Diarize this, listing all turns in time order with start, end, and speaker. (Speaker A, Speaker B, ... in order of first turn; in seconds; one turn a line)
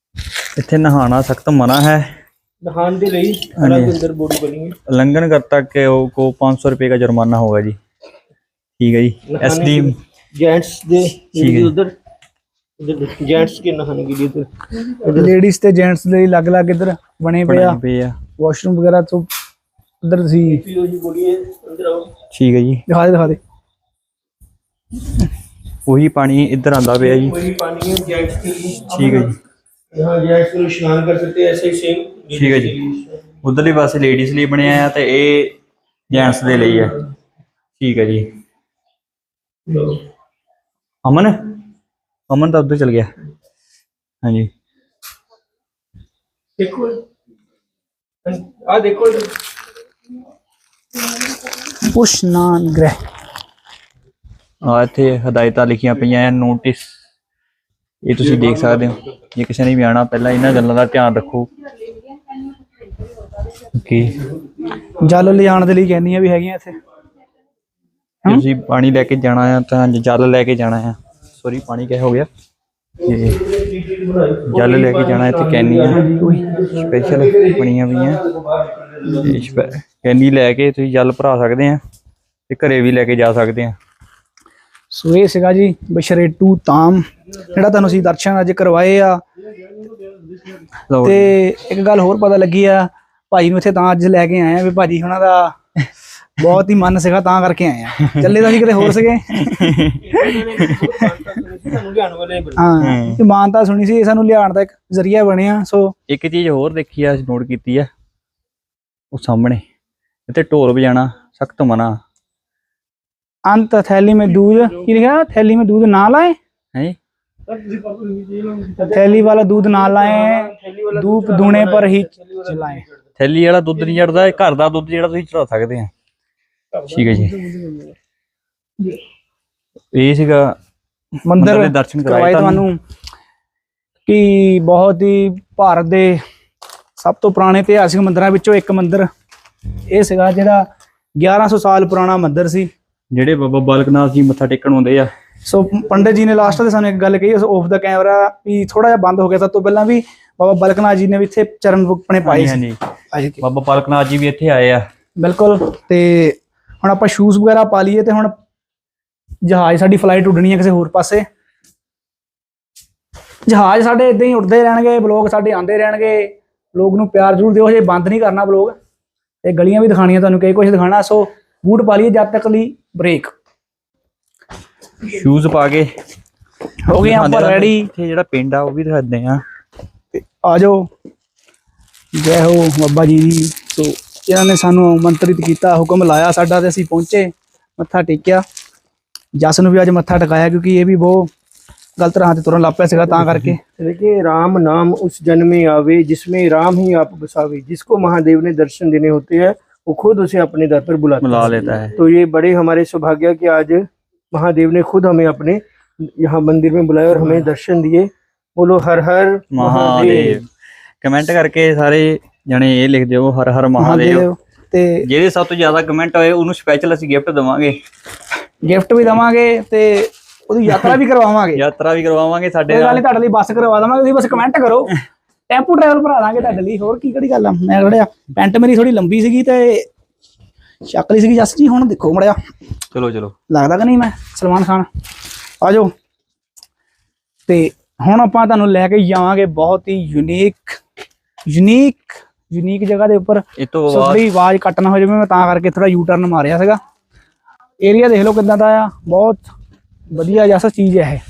Speaker A: 0.6-2.2
Speaker B: 2.6-4.8
Speaker A: 3.6-4.0
Speaker A: 4.8-7.8
Speaker A: 8.8-9.9
Speaker B: 9.3-11.9
Speaker A: 11.3-11.7
Speaker B: 12.8-15.4
Speaker C: 15.1-17.8
Speaker A: 17.4-18.2
Speaker C: 18.4-19.3
Speaker C: 20.0-20.6
Speaker B: 20.4-22.1
Speaker A: 22.3-22.9
Speaker C: 22.9-23.4
Speaker A: 25.9-27.3
Speaker B: 27.0-29.3
Speaker A: 28.9-29.4
Speaker B: 29.9-33.2
Speaker A: 32.3-32.8
Speaker A: 33.4-35.6
Speaker A: 36.1-37.0
Speaker B: 36.2-37.0
Speaker A: 37.8-38.3
Speaker B: 39.7-40.0
Speaker A: 41.0-41.5
Speaker A: 42.3-43.1
Speaker A: 44.2-44.5
Speaker B: 46.6-47.0
Speaker B: 48.2-49.3
Speaker C: 51.9-53.0
Speaker A: 54.6-56.9
Speaker A: 58.0-61.5
Speaker A: 63.7-64.2
Speaker C: 65.0-66.8
Speaker A: 68.2-72.3
Speaker A: 73.0-73.4
Speaker B: 73.3-79.7
Speaker A: 74.5-76.1
Speaker C: 76.1-76.5
Speaker A: 76.8-78.2
Speaker A: 79.1-81.8
Speaker A: 82.5-83.8
Speaker C: 84.9-89.2
Speaker A: 90.9-91.3
Speaker C: 91.0-95.5
Speaker C: 96.4-100.4
Speaker A: 98.1-98.6
Speaker A: 99.3-101.0
Speaker B: 100.0-102.7
Speaker C: 102.6-105.9
Speaker A: 102.8-103.2
Speaker A: 106.1-107.9
Speaker A: 109.1-109.6
Speaker A: 110.3-112.0
Speaker C: 113.5-116.4
Speaker B: 117.5-123.0
Speaker C: 118.8-122.8
Speaker A: 123.2-125.9
Speaker B: 126.8-127.9
Speaker A: 126.9-127.3
Speaker A: 129.9-130.6
Speaker C: 131.2-132.8
Speaker A: 131.4-132.7
Speaker C: 134.1-136.2
Speaker C: 137.0-139.1
Speaker C: 139.9-142.7
Speaker A: 143.1-145.1
Speaker C: 145.4-153.4
Speaker A: 152.2-152.8
Speaker A: 153.4-154.8
Speaker C: 155.2-158.3
Speaker C: 159.4-161.2
Speaker C: 163.5-168.8
Speaker C: 169.4-173.3
Speaker A: 175.0-175.9
Speaker C: 176.9-177.9
Speaker A: 177.0-179.4
Speaker C: 180.1-180.9
Speaker C: 182.1-188.4
Speaker C: 189.3-191.3
Speaker C: 192.0-193.6
Speaker A: 193.2-193.5
Speaker B: 193.8-210.4
Speaker A: 201.2-202.0
Speaker A: 209.5-210.5
Speaker A: 211.0-214.3
Speaker C: 213.8-215.1
Speaker A: 215.0-217.8
Speaker C: 218.6-221.6
Speaker A: 221.6-223.0
Speaker C: 222.7-224.9
Speaker C: 225.5-229.9
Speaker C: 230.8-232.5
Speaker A: 232.9-233.3
Speaker C: 233.5-234.9
Speaker C: 235.6-235.9
Speaker C: 237.5-240.8
Speaker C: 241.5-246.8
Speaker A: 243.6-244.2
Speaker C: 247.8-249.4
Speaker C: 250.1-251.2